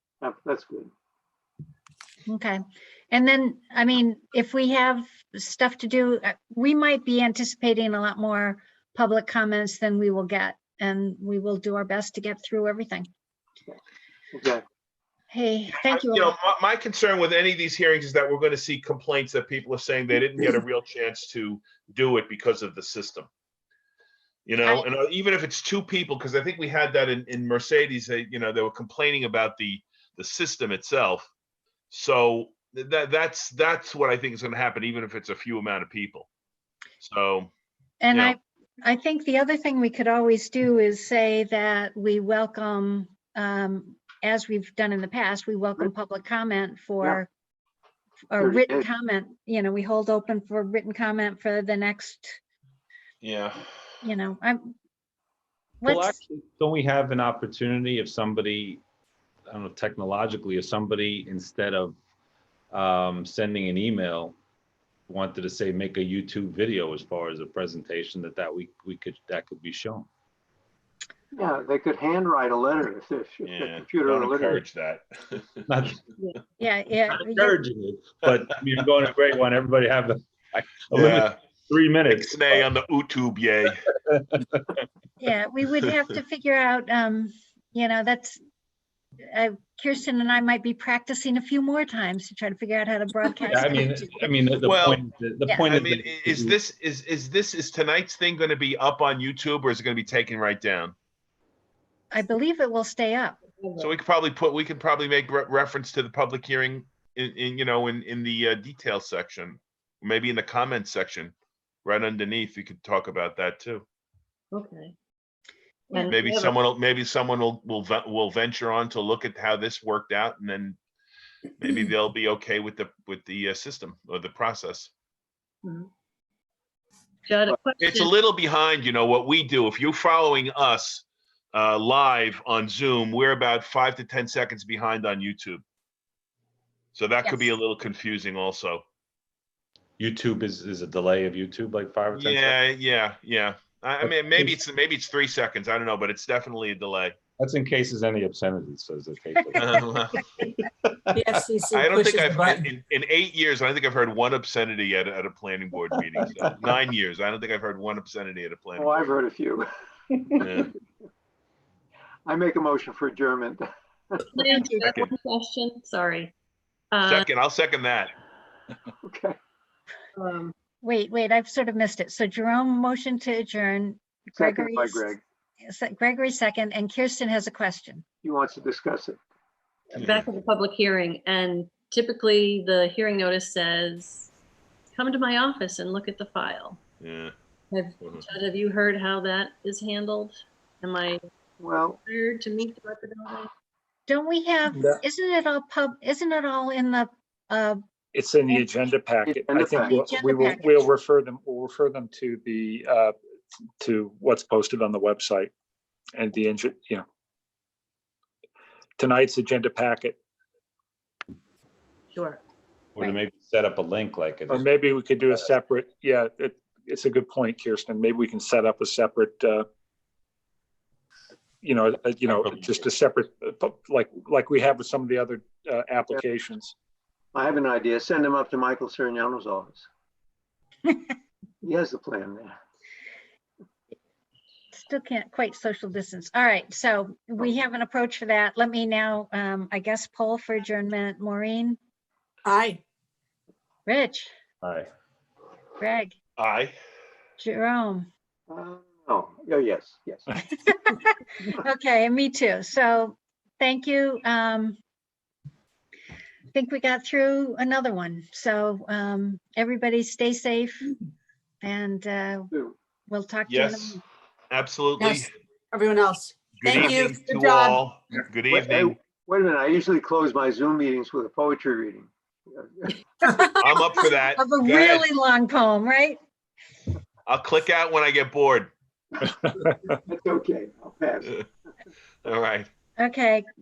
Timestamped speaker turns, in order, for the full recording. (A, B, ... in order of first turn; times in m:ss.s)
0:00.2-0:00.9 A
0:02.3-0:02.6 B
0:03.1-0:13.1 B
0:14.3-0:14.6 A
0:15.3-0:16.4 B
0:15.9-0:23.3 C
0:24.5-0:31.3 C
0:31.9-0:36.3 C
0:37.0-0:37.5 C
0:38.0-0:47.3 B
0:38.1-0:38.4 C
0:48.3-0:52.4 B
0:48.4-0:48.9 A
0:53.2-0:53.6 C
0:54.0-0:54.8 B
0:55.8-0:56.2 B
0:55.8-0:58.8 D
0:59.5-1:02.0 D
1:02.7-1:04.4 D
1:05.1-1:10.1 D
1:11.3-1:14.6 A
1:13.4-1:15.6 C
1:15.7-1:16.0 D
1:16.6-1:17.6 B
1:17.3-1:22.7 D
1:20.9-1:21.4 C
1:22.1-1:23.8 C
1:24.1-1:24.6 D
1:25.2-1:28.4 B
1:29.3-1:34.3 B
1:33.5-1:36.6 D
1:34.6-1:35.0 C
1:35.7-1:41.0 C
1:42.1-1:43.4 B
1:43.6-1:43.9 E
1:43.8-1:51.3 C
1:51.8-1:53.8 C
1:54.5-1:55.0 E
1:55.9-1:56.6 E
1:56.0-2:00.8 C
2:01.6-2:04.9 C
2:05.6-2:05.9 E
2:07.3-2:08.1 E
2:07.8-2:15.6 C
2:16.9-2:18.8 C
2:17.2-2:17.5 B
2:20.0-2:22.6 D
2:22.2-2:27.2 C
2:24.0-2:24.5 D
2:27.4-2:31.5 D
2:29.6-2:30.2 C
2:31.2-2:32.7 F
2:31.7-2:39.1 C
2:38.8-2:39.7 A
2:40.4-2:40.7 C
2:42.3-2:44.3 A
2:44.3-2:46.3 E
2:44.8-2:45.1 C
2:46.9-2:47.3 E
2:47.1-2:48.1 C
2:49.1-2:49.4 A
2:50.2-2:50.5 E
2:50.8-2:55.2 B
2:54.4-2:55.2 A
2:55.7-2:58.0 B
2:58.2-2:59.2 A
2:59.9-3:04.3 E
3:00.0-3:00.2 C
3:05.0-3:06.8 E
3:07.0-3:07.3 C
3:07.7-3:11.2 E
3:11.6-3:12.0 A
3:12.1-3:13.5 E
3:14.1-3:17.8 B
3:18.1-3:23.2 G
3:19.3-3:20.4 A
3:19.8-3:20.9 B
3:23.8-3:25.5 G
3:26.2-3:27.0 G
3:29.0-3:30.2 G
3:32.1-3:32.4 E
3:33.0-3:34.7 D
3:34.5-3:39.7 G
3:41.6-3:46.7 G
3:42.3-3:42.8 D
3:47.3-3:49.9 A
3:51.6-3:52.6 A
3:54.7-4:01.8 B
4:02.4-4:02.8 F
4:03.9-4:04.3 B
4:04.6-4:04.9 D
4:05.8-4:06.2 B
4:06.4-4:06.8 C
4:07.4-4:08.1 B
4:08.5-4:10.3 A
4:10.5-4:14.8 B
4:16.5-4:20.9 B
4:21.6-4:22.5 B
4:23.1-4:24.0 B
4:23.5-4:24.0 C
4:24.5-4:25.3 C
4:25.0-4:27.8 F
4:26.6-4:29.0 C
4:28.5-4:33.0 A
4:33.2-4:36.2 B
4:33.3-4:33.6 F
4:33.6-4:35.0 C
4:37.3-4:38.7 C
4:40.0-4:41.3 A
4:42.2-4:42.7 C
4:43.0-4:43.4 B